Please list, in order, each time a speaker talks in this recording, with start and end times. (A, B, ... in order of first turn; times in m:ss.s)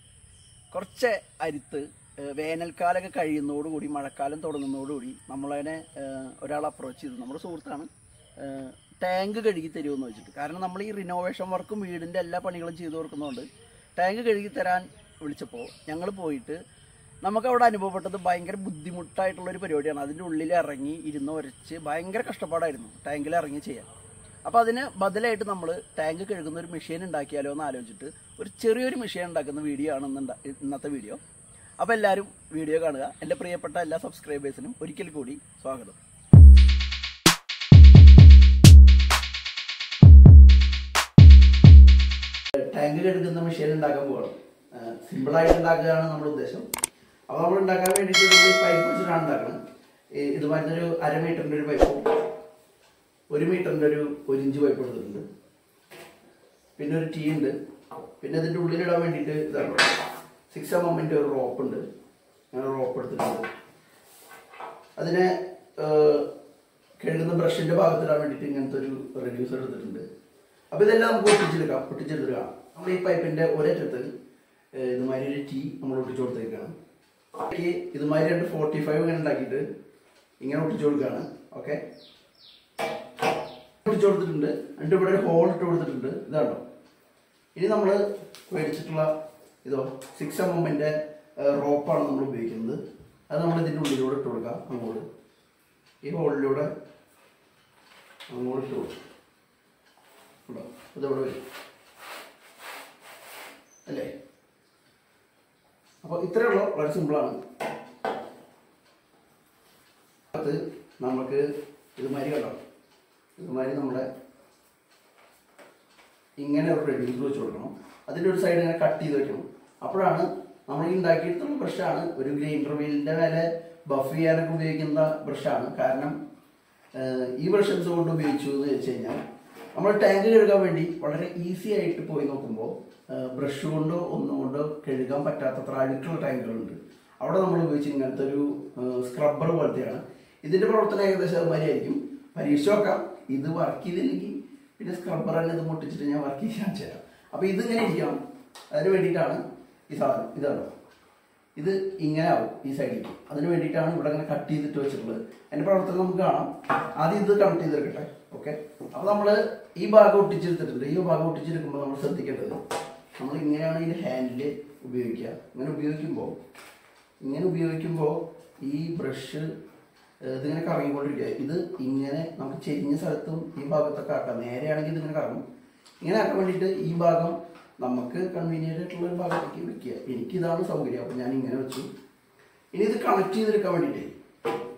0:00.7-0:16.6 A
0:17.2-0:23.9 A
0:24.4-0:31.2 A
0:31.8-0:36.0 A
0:42.6-0:46.7 A
0:47.3-0:49.6 A
0:50.2-0:52.2 A
0:53.3-0:55.3 A
0:56.8-0:57.6 A
0:58.2-1:00.0 A
1:00.5-1:01.8 A
1:02.5-1:03.5 A
1:05.0-1:06.3 A
1:07.0-1:10.1 A
1:10.7-1:14.1 A
1:14.8-1:16.7 A
1:17.4-1:19.7 A
1:20.4-1:21.8 A
1:23.8-1:26.6 A
1:27.6-1:29.1 A
1:29.6-1:35.0 A
1:36.0-1:36.7 A
1:38.3-1:39.0 A
1:40.5-1:41.4 A
1:43.9-1:44.1 A
1:46.0-1:47.4 A
1:50.3-1:51.4 A
1:52.0-1:52.6 A
1:53.4-1:54.1 A
1:56.4-2:06.2 A
2:07.0-2:09.2 A
2:09.8-2:28.2 A
2:28.7-2:30.7 A
2:31.6-2:42.6 A
2:43.2-2:46.4 A
2:47.2-2:49.5 A
2:50.2-2:55.4 A
2:56.0-3:01.9 A
3:02.7-3:04.1 A